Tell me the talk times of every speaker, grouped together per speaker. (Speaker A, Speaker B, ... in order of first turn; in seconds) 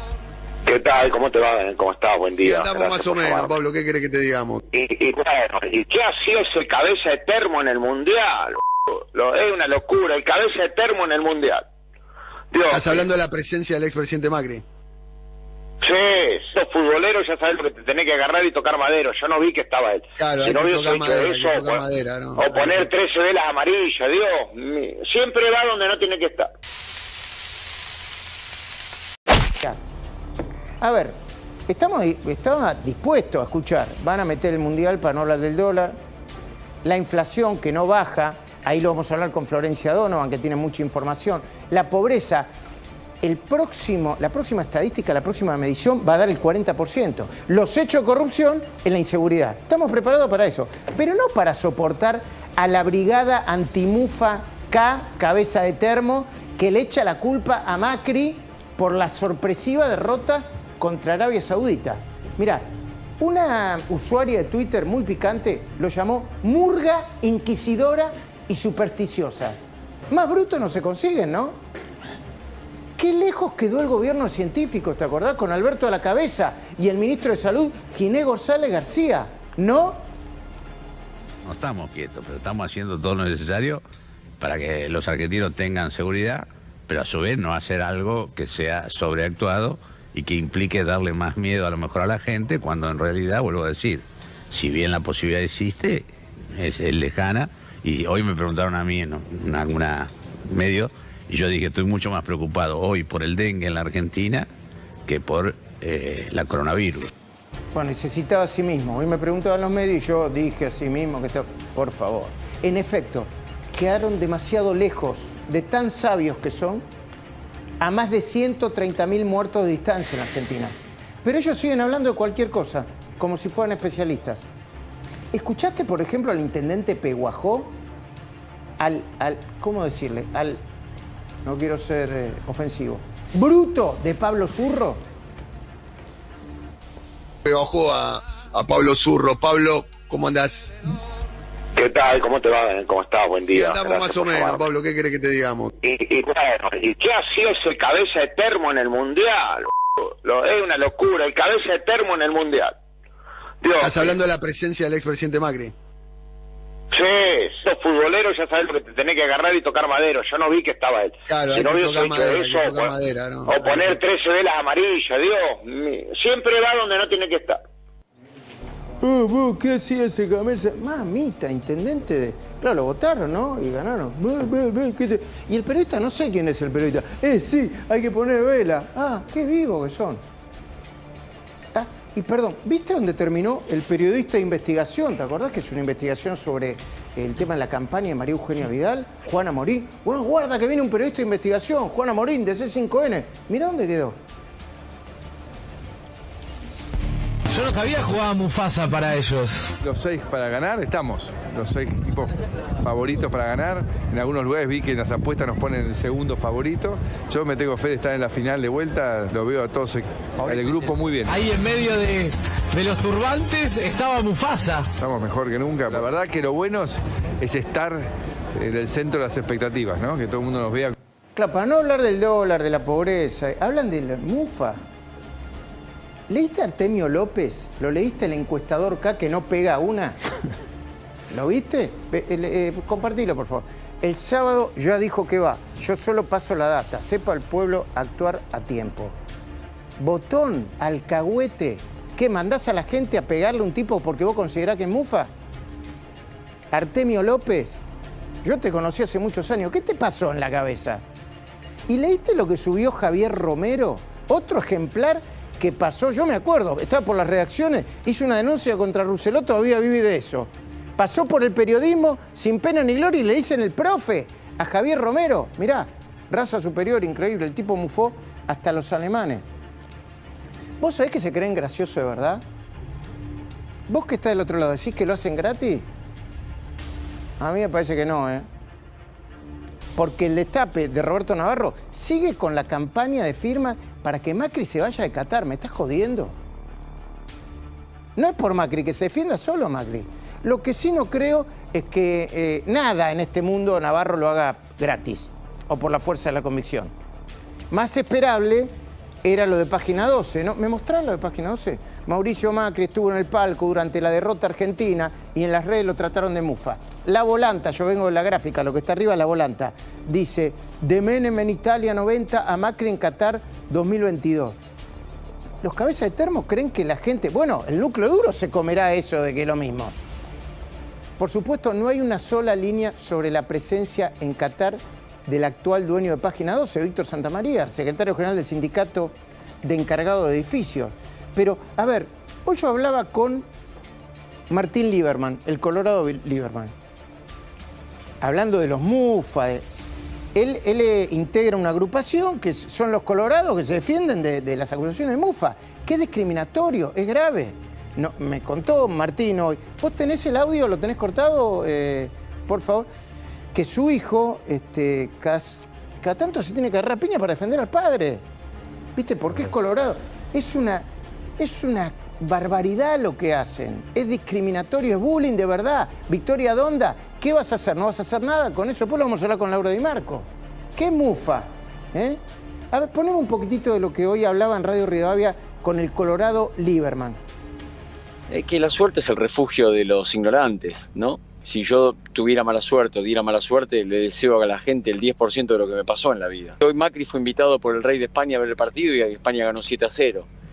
Speaker A: 0.7-3.6, 4.7-11.6, 12.5-13.0, 15.8-21.8, 22.4-26.5, 141.8-144.7, 145.8-152.7, 153.6-154.1, 156.9-162.9, 163.4-167.6
Speaker B: 2.4-4.6, 12.7-14.6, 20.2-22.8, 137.4-140.7, 143.5-145.7, 153.8-155.7, 161.3-163.9
Speaker C: 30.8-31.1, 31.7-35.9, 36.8-42.5, 43.2-62.6, 63.2-69.6, 70.1-71.5, 73.0-80.0, 107.7-116.8, 117.8-124.5, 125.3-127.7, 128.8-130.6, 131.4-135.0, 169.0-180.2, 181.7-194.2, 221.3-224.8, 226.3-230.2, 231.3-239.2, 240.0-245.3, 246.7-247.8, 248.4-251.0, 251.9-269.4, 270.8-272.4, 273.9-275.8, 277.4-278.4, 279.9-286.4, 288.1-296.9, 297.7-298.7, 299.2-314.6, 315.6-319.9, 321.2-333.4, 334.5-336.7, 338.2-339.6, 340.3-352.9, 353.5-358.2, 358.9-360.9, 361.4-372.2, 372.7-377.2
Speaker D: 81.4-83.8, 84.4-104.5, 105.1-107.1
Speaker E: 197.5-199.7, 211.3-214.9
Speaker F: 199.8-211.4, 215.0-220.9
Speaker G: 378.3-390.3